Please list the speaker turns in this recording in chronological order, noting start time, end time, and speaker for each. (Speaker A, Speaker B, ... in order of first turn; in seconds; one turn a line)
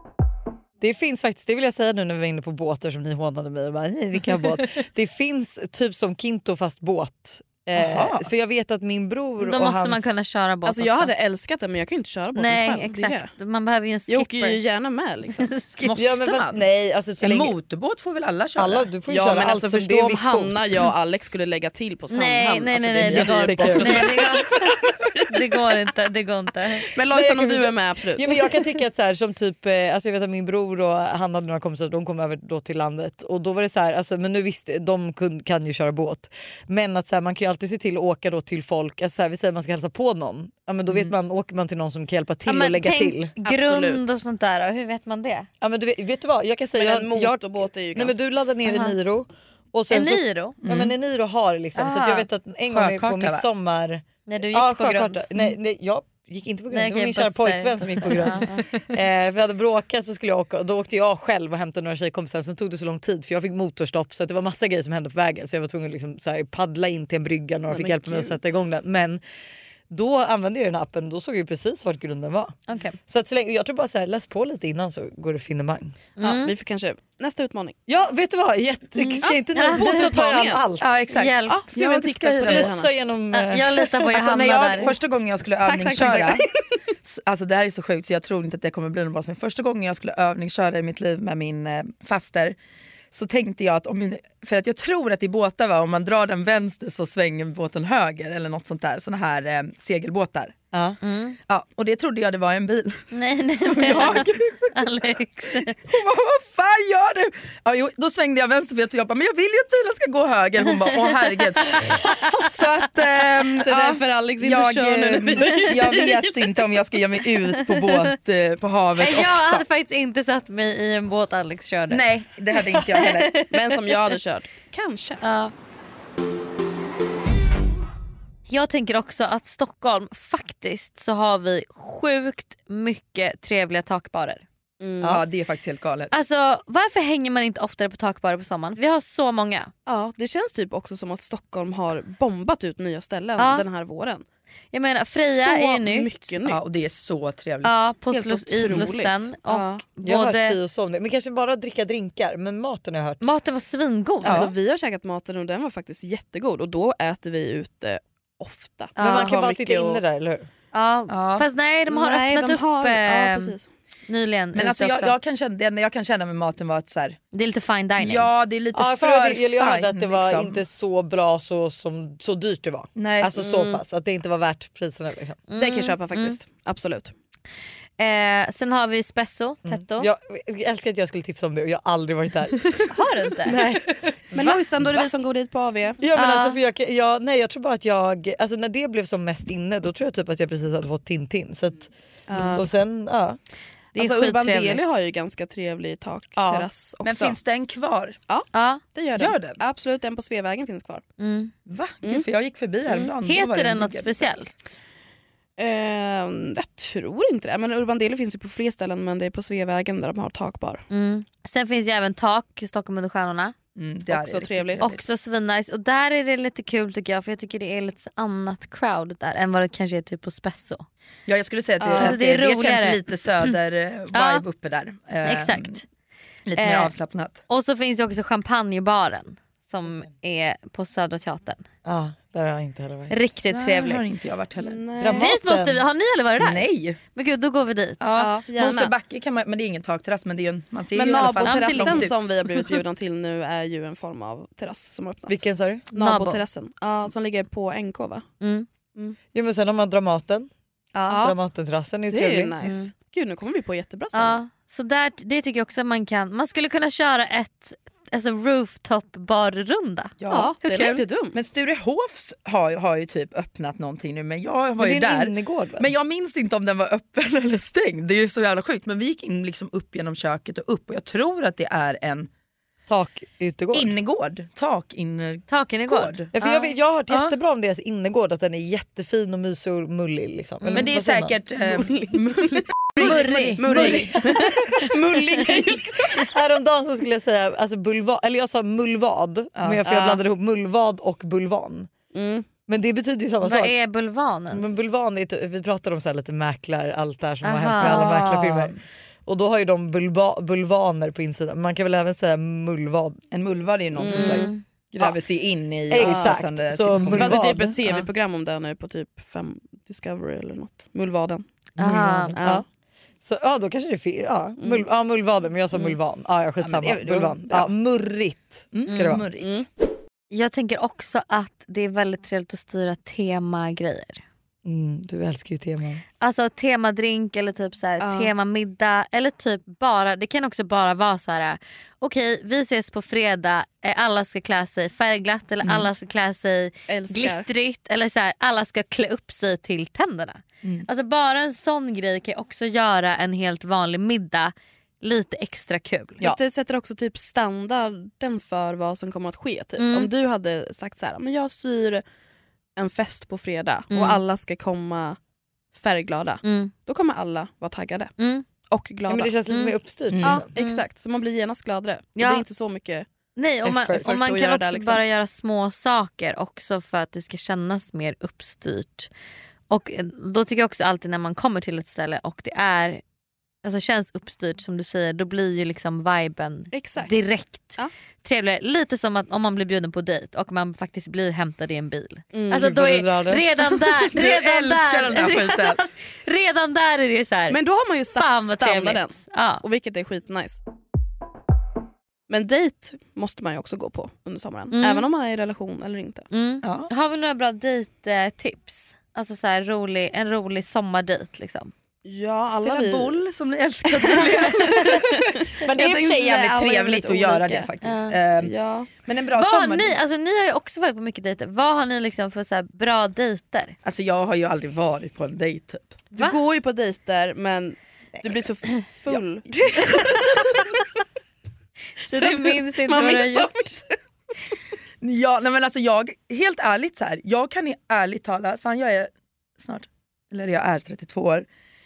Speaker A: 0.8-10.1
Speaker B: 7.7-8.3
Speaker C: 9.4-11.1
Speaker D: 10.6-13.3
Speaker C: 12.3-14.6
Speaker D: 14.1-15.5
Speaker C: 15.3-16.0
Speaker B: 15.8-16.6
Speaker A: 15.9-17.5
Speaker B: 17.2-18.9
Speaker A: 18.6-20.9
Speaker D: 19.1-24.7
Speaker C: 22.1-26.9
Speaker A: 23.0-24.2
Speaker D: 26.9-28.4
Speaker A: 27.1-43.3
Speaker C: 42.4-45.5
Speaker D: 43.4-44.0
Speaker A: 45.6-69.2
Speaker D: 46.8-48.2
Speaker C: 48.6-49.0
Speaker C: 49.9-50.6
Speaker B: 50.6-50.9
Speaker C: 51.7-52.2
Speaker B: 52.7-53.4
Speaker C: 54.3-55.2
Speaker C: 56.7-58.6
Speaker D: 67.7-68.4
Speaker A: 69.9-72.5
Speaker C: 72.7-73.0
Speaker A: 73.1-76.0
Speaker C: 76.2-76.5
Speaker D: 76.2-77.8
Speaker A: 77.9-80.9
Speaker C: 79.0-79.8
Speaker D: 79.2-80.6
Speaker B: 80.8-82.7
Speaker C: 81.1-81.6
Speaker D: 81.5-82.9
Speaker A: 82.4-84.1
Speaker C: 83.3-84.9
Speaker B: 84.1-86.4
Speaker D: 85.6-86.5
Speaker B: 87.0-92.6
Speaker B: 93.1-100.6
Speaker A: 100.7-101.0
Speaker C: 101.0-101.4
Speaker B: 101.5-119.7
Speaker C: 103.1-105.8
Speaker C: 111.5-112.5
Speaker D: 113.7-116.3
Speaker C: 117.6-118.0
Speaker C: 119.0-122.0
Speaker B: 121.9-123.3
Speaker C: 122.7-123.8
Speaker D: 123.5-125.2
Speaker C: 125.2-125.5
Speaker C: 128.5-134.4
Speaker D: 134.8-135.2
Speaker B: 135.0-136.1
Speaker C: 136.1-139.7
Speaker D: 139.8-144.2
Speaker C: 143.4-143.6
Speaker C: 144.7-146.3
Speaker D: 145.4-146.8
Speaker B: 146.4-147.8
Speaker C: 147.6-150.6
Speaker D: 148.1-149.8
Speaker A: 150.0-153.3
Speaker C: 153.2-154.4
Speaker D: 154.2-160.0
Speaker B: 154.2-154.5
Speaker C: 159.0-159.3
Speaker A: 159.0-160.5
Speaker C: 160.7-163.5
Speaker B: 161.1-161.5
Speaker D: 161.9-163.7
Speaker C: 164.1-165.1
Speaker B: 164.5-167.2
Speaker C: 167.3-168.3
Speaker B: 168.0-170.6
Speaker A: 168.7-175.4
Speaker B: 172.9-173.3
Speaker D: 173.4-173.8
Speaker C: 175.5-176.4
Speaker D: 175.6-177.1
Speaker C: 178.0-180.1
Speaker A: 179.6-182.9
Speaker C: 182.9-183.6
Speaker A: 183.4-184.5
Speaker D: 184.3-186.0
Speaker A: 186.0-193.4
Speaker C: 186.1-186.6
Speaker D: 192.3-192.7
Speaker C: 193.9-194.9
Speaker D: 193.9-197.4
Speaker B: 196.4-198.2
Speaker D: 198.3-201.0
Speaker C: 198.5-198.8
Speaker B: 199.2-199.6
Speaker C: 201.2-201.5
Speaker B: 201.7-204.4
Speaker C: 202.9-204.5
Speaker D: 205.6-210.8
Speaker C: 210.9-213.5
Speaker B: 213.8-215.0
Speaker D: 214.1-214.8
Speaker C: 214.8-220.8
Speaker B: 221.3-225.8
Speaker D: 221.8-222.2
Speaker C: 221.9-223.5
Speaker C: 224.1-224.4
Speaker C: 225.2-225.8
Speaker B: 226.4-227.4
Speaker C: 226.6-226.9
Speaker C: 227.5-231.6
Speaker A: 231.8-233.2
Speaker C: 233.1-234.1
Speaker B: 233.5-234.8
Speaker D: 234.6-235.3
Speaker A: 235.0-235.8
Speaker C: 235.1-238.1
Speaker B: 236.4-237.0
Speaker B: 238.0-242.8
Speaker D: 238.1-238.9
Speaker D: 240.9-245.4
Speaker C: 241.4-242.1
Speaker A: 245.3-245.8
Speaker D: 245.9-248.2
Speaker C: 245.9-246.4
Speaker C: 248.4-248.7
Speaker A: 249.3-250.5
Speaker C: 250.9-251.3
Speaker D: 251.1-251.4
Speaker A: 251.2-252.5
Speaker D: 252.1-254.4
Speaker C: 252.6-252.9
Speaker C: 254.1-261.0
Speaker B: 260.2-260.5
Speaker D: 260.3-261.3
Speaker B: 261.3-272.3
Speaker A: 264.8-265.9
Speaker A: 272.9-273.9
Speaker B: 273.7-276.3
Speaker C: 275.5-276.7
Speaker A: 276.3-281.4
Speaker B: 280.7-284.2
Speaker D: 281.6-282.6
Speaker C: 283.0-284.1
Speaker D: 283.6-286.3
Speaker A: 283.6-284.9
Speaker A: 286.1-291.9
Speaker B: 289.6-289.8
Speaker D: 289.8-290.2
Speaker D: 292.1-292.4
Speaker A: 292.7-293.7
Speaker C: 293.4-294.7
Speaker A: 294.5-303.2
Speaker C: 297.4-298.2
Speaker B: 297.8-298.8
Speaker B: 303.3-308.0
Speaker D: 303.9-304.5
Speaker C: 304.1-304.6
Speaker A: 305.9-307.9
Speaker D: 306.0-306.3
Speaker D: 307.1-311.4
Speaker A: 311.8-312.6
Speaker C: 311.8-312.3
Speaker D: 312.4-312.6
Speaker A: 313.2-319.2
Speaker D: 314.6-314.9
Speaker B: 316.6-317.7
Speaker B: 318.7-319.6
Speaker C: 318.9-319.1
Speaker D: 319.4-319.6
Speaker C: 320.3-324.2
Speaker A: 324.6-326.0
Speaker C: 326.2-346.2
Speaker D: 328.0-328.3
Speaker D: 336.9-337.5
Speaker D: 346.2-352.0
Speaker C: 349.8-350.1
Speaker D: 352.8-355.2
Speaker C: 353.9-354.2
Speaker D: 355.7-358.1
Speaker C: 356.4-356.7
Speaker C: 358.2-358.4
Speaker D: 358.7-359.3
Speaker A: 359.1-360.5
Speaker C: 359.5-359.7
Speaker B: 360.1-360.4
Speaker D: 360.2-363.1
Speaker C: 360.6-360.8
Speaker C: 362.2-362.4
Speaker C: 363.4-369.1
Speaker A: 363.6-364.1
Speaker D: 364.0-365.0
Speaker C: 369.7-373.0
Speaker C: 373.6-387.6
Speaker D: 376.7-377.1
Speaker D: 382.3-382.7
Speaker A: 382.5-383.4
Speaker B: 384.1-385.8
Speaker D: 387.5-390.6
Speaker C: 388.1-389.6
Speaker D: 392.3-396.3
Speaker C: 394.7-395.1
Speaker C: 396.3-401.7
Speaker B: 396.6-396.9
Speaker D: 402.0-403.2
Speaker B: 402.5-408.5
Speaker D: 404.0-407.7
Speaker C: 407.8-408.2
Speaker D: 408.4-408.9
Speaker B: 409.0-410.0
Speaker C: 409.4-413.8
Speaker B: 413.8-416.0
Speaker D: 416.1-420.6
Speaker B: 419.1-420.3
Speaker C: 422.0-423.5
Speaker D: 422.1-423.9
Speaker B: 425.0-431.5